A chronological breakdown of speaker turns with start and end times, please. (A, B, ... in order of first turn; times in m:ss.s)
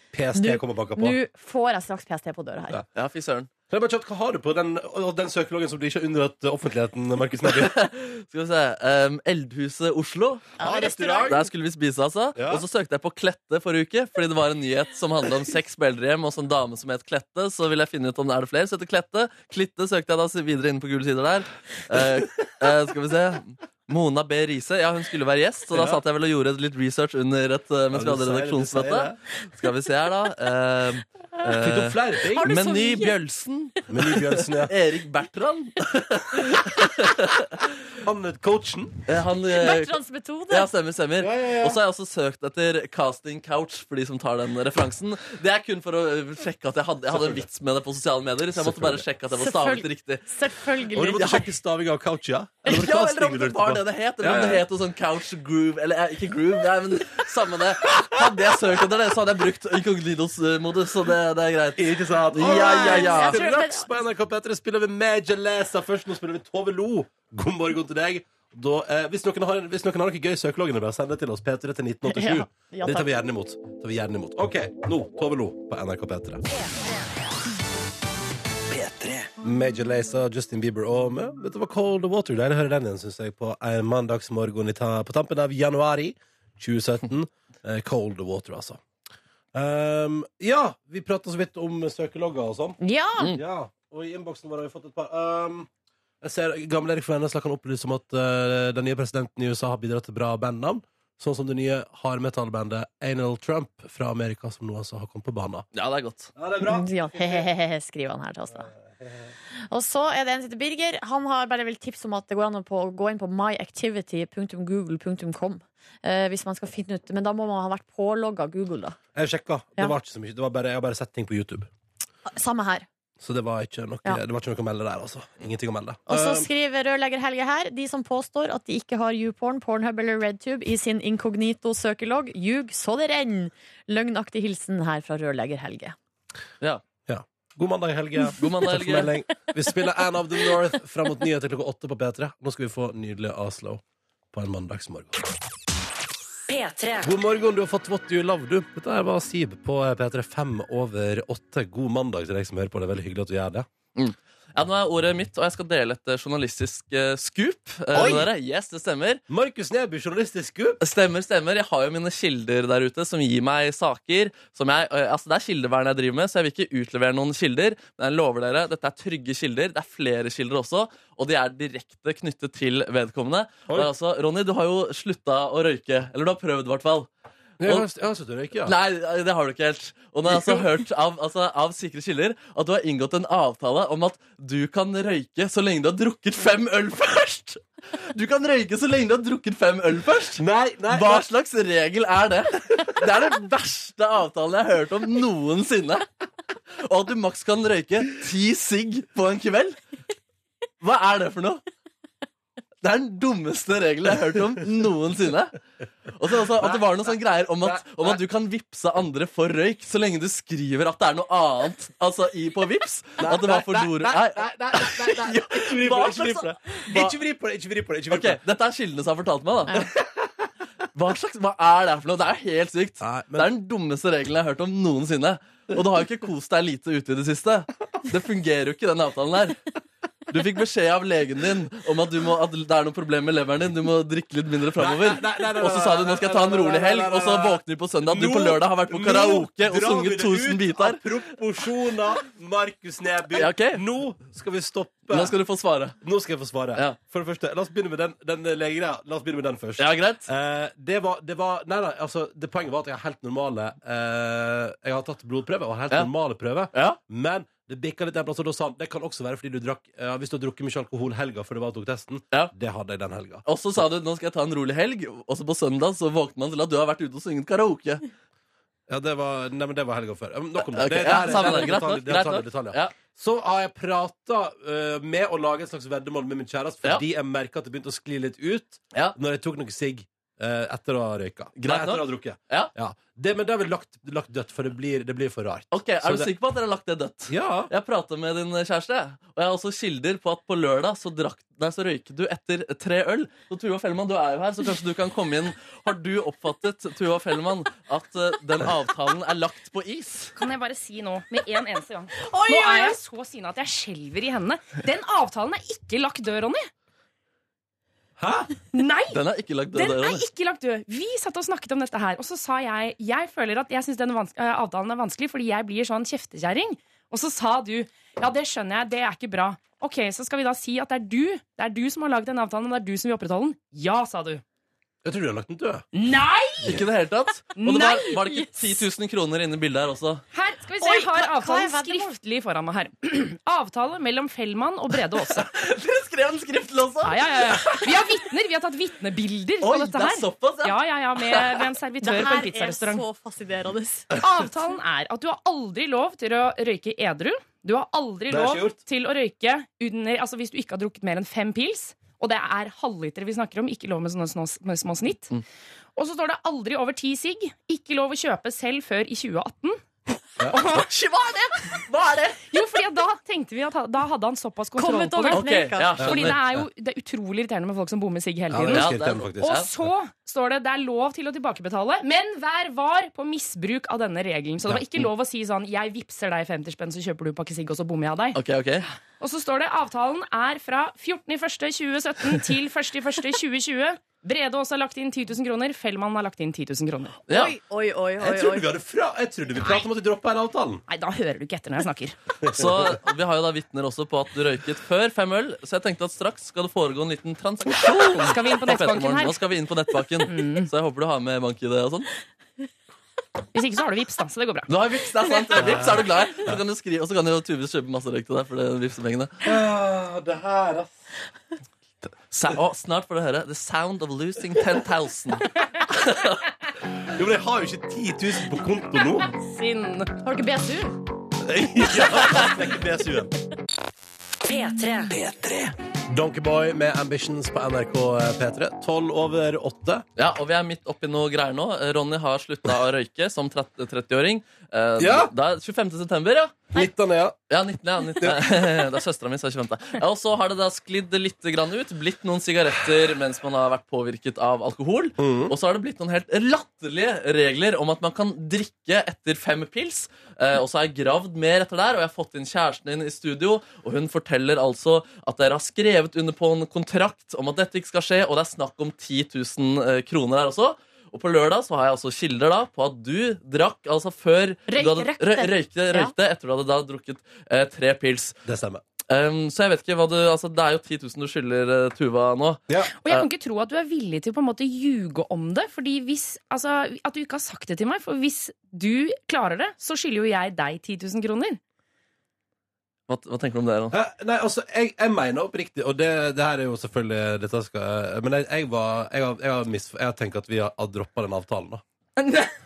0:00.1-0:01.2 A
0:00.3-0:02.8 B
0:02.9-0:03.5 C
0:03.7-0:07.9 A
0:07.4-0:10.5 C
0:10.6-0:11.4 B
0:10.6-0:11.4 A
0:11.3-0:37.7 C
0:12.4-0:12.6 A
0:25.7-0:26.0 A
0:27.9-0:29.2 A
0:31.5-0:32.5 A
0:32.3-0:33.1 B
0:33.9-0:34.7 A
0:38.0-0:39.0 A
0:39.1-0:40.0 C
0:39.5-0:40.7 B
0:40.5-0:50.3 C
0:41.2-0:41.8 A
0:47.1-0:47.4 A
0:48.5-0:49.0 A
0:49.4-0:51.5 B
0:50.9-0:54.6 A
0:52.6-1:03.4 C
1:01.8-1:16.4 A
1:02.4-1:03.9 B
1:12.1-1:13.1 B
1:18.7-1:19.3 D
1:19.4-1:28.8 A
1:29.5-1:32.8 A
1:32.8-1:33.3 B
1:33.3-1:35.7 A
1:36.2-1:45.6 A
1:45.7-1:46.3 C
1:46.4-1:47.5 A
1:46.6-1:48.7 B
1:48.5-1:49.3 A
1:49.7-1:59.0 B
1:59.1-2:01.7 A
2:02.3-2:02.9 B
2:03.2-2:06.5 A
2:06.1-2:16.0 B
2:17.1-2:25.2 A
2:18.4-2:19.1 C
2:26.5-2:27.1 D
2:27.0-2:33.7 A
2:34.0-2:39.2 C
2:37.9-2:38.3 A
2:39.3-2:40.8 A
2:40.8-2:57.1 C
2:57.6-2:58.8 A
2:58.6-3:16.1 C
3:00.3-3:00.6 A
3:10.4-3:11.3 A
3:16.8-3:19.8 C
3:20.8-3:21.6 C
3:22.8-3:25.6 C
3:26.1-3:37.2 C
3:26.6-3:28.2 A
3:33.2-3:38.4 A
3:38.1-3:39.9 C
3:40.9-3:49.6 C
3:43.0-3:43.5 A
3:50.3-4:01.0 C
3:54.8-4:05.3 A
4:03.3-4:03.8 C
4:05.1-4:06.0 C
4:06.0-4:23.4 A
4:09.8-4:10.3 C
4:16.7-4:17.0 C
4:23.4-4:28.1 C
4:28.9-4:46.3 A
4:30.7-4:32.9 C
4:41.6-4:42.7 C
4:45.7-5:00.3 C
4:47.3-4:47.7 A
5:00.4-5:06.7 E
5:02.2-5:03.0 B
5:08.2-5:08.5 A
5:08.7-5:09.2 E
5:09.1-5:10.2 C
5:09.7-5:24.4 E
5:25.0-5:25.8 A
5:25.9-5:26.8 E
5:26.6-5:30.2 C
5:27.6-5:28.8 E
5:30.3-5:35.4 E
5:30.8-5:32.1 B
5:35.3-5:37.9 C
5:37.0-5:43.0 E
5:39.6-5:41.6 C
5:42.0-5:44.1 B
5:44.1-5:55.3 E
5:48.3-5:48.8 A
5:56.0-5:59.8 E
6:00.5-6:01.6 E
6:00.6-6:02.5 C
6:02.5-6:05.4 E
6:04.8-6:06.0 B
6:05.3-6:06.4 C
6:06.0-6:06.6 A
6:06.0-6:18.4 E
6:08.5-6:09.6 A
6:08.7-6:09.7 C
6:18.3-6:18.8 C
6:19.2-6:27.2 E
6:27.3-6:28.7 B
6:27.3-6:27.5 C
6:28.2-6:30.8 A
6:30.9-6:32.2 E
6:32.4-6:32.9 A
6:32.5-6:42.1 C
6:38.0-6:39.4 E
6:40.2-6:40.7 E
6:43.5-6:44.7 E
6:44.7-6:49.5 C
6:45.6-6:46.6 A
6:49.4-6:50.9 A
6:52.3-6:56.4 C
6:57.1-6:59.3 A
6:59.3-7:00.1 E
7:00.2-7:01.0 B
7:01.4-7:03.3 A
7:04.4-7:05.7 D
7:06.1-7:10.0 A
7:10.2-7:16.7 C
7:15.0-7:15.3 A
7:16.7-7:17.4 A
7:17.5-7:48.4 C
7:18.2-7:18.6 A
7:25.2-7:25.5 A
7:44.7-7:46.1 B
7:48.4-7:48.8 A
7:49.1-7:53.3 C
7:53.0-8:01.6 E
8:03.1-8:03.9 C
8:03.9-8:11.8 A
8:12.2-8:12.5 E